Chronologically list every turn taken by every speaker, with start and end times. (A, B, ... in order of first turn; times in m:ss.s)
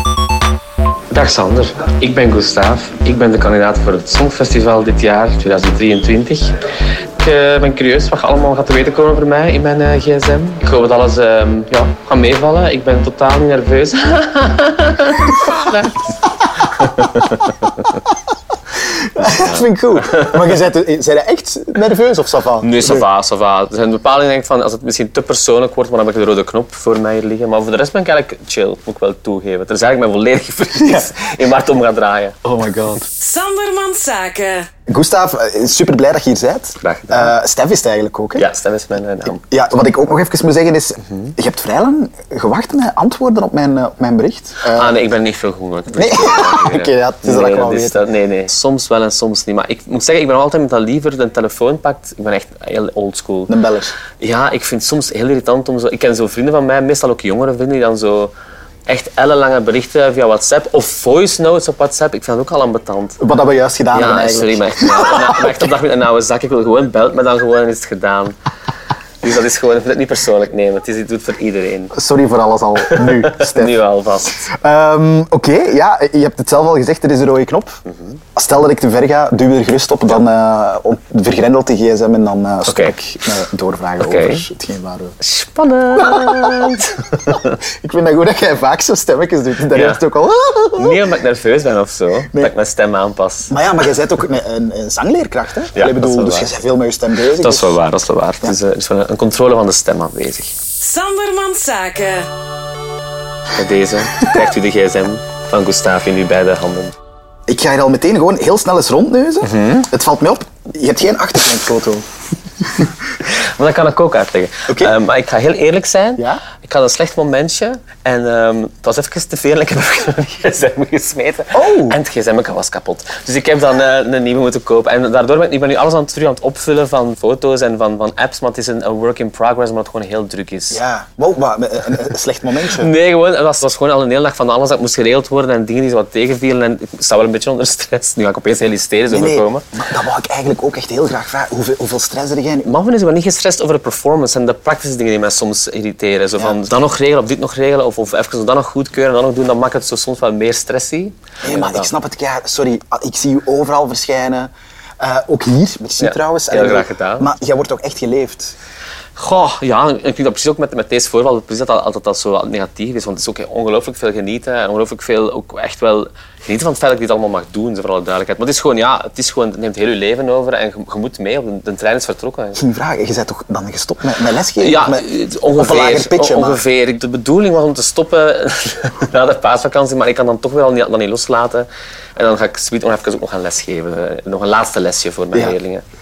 0:01.1-0:06.6 A
0:07.2-0:16.1 A
0:16.7-0:17.8 A
0:18.8-0:23.0 B
0:19.2-0:20.4 A
0:22.6-0:32.4 A
0:30.8-0:31.1 B
0:32.4-0:33.1 B
0:33.2-0:34.7 C
0:34.9-0:38.5 B
0:36.8-0:37.3 A
0:38.4-0:39.4 A
0:39.4-0:44.9 B
0:44.7-0:53.6 A
0:45.9-0:48.0 B
0:53.5-0:53.9 B
0:54.2-0:58.3 A
0:58.9-1:03.2 A
1:03.2-1:05.7 B
1:03.9-1:08.4 A
1:09.2-1:11.9 A
1:11.9-1:13.8 B
1:12.8-1:14.5 A
1:14.4-1:17.8 B
1:17.9-1:18.2 A
1:18.4-1:25.2 B
1:22.6-1:22.9 A
1:24.0-1:24.4 A
1:25.2-1:27.6 A
1:26.0-1:31.0 B
1:29.7-1:30.0 A
1:30.8-1:33.5 A
1:33.5-1:37.7 B
1:35.7-1:36.5 A
1:37.4-1:40.5 A
1:40.8-1:42.3 C
1:43.5-1:46.9 A
1:47.5-1:52.1 B
1:49.4-1:49.9 A
1:53.2-2:10.8 A
1:54.7-1:54.9 B
1:56.2-1:56.4 B
2:01.5-2:02.0 B
2:10.7-2:12.9 B
2:12.7-2:19.6 A
2:19.1-2:22.7 B
2:22.6-2:31.9 A
2:31.4-2:38.6 B
2:36.0-2:37.3 A
2:39.2-2:52.6 A
2:52.6-2:56.6 B
2:54.6-3:05.8 A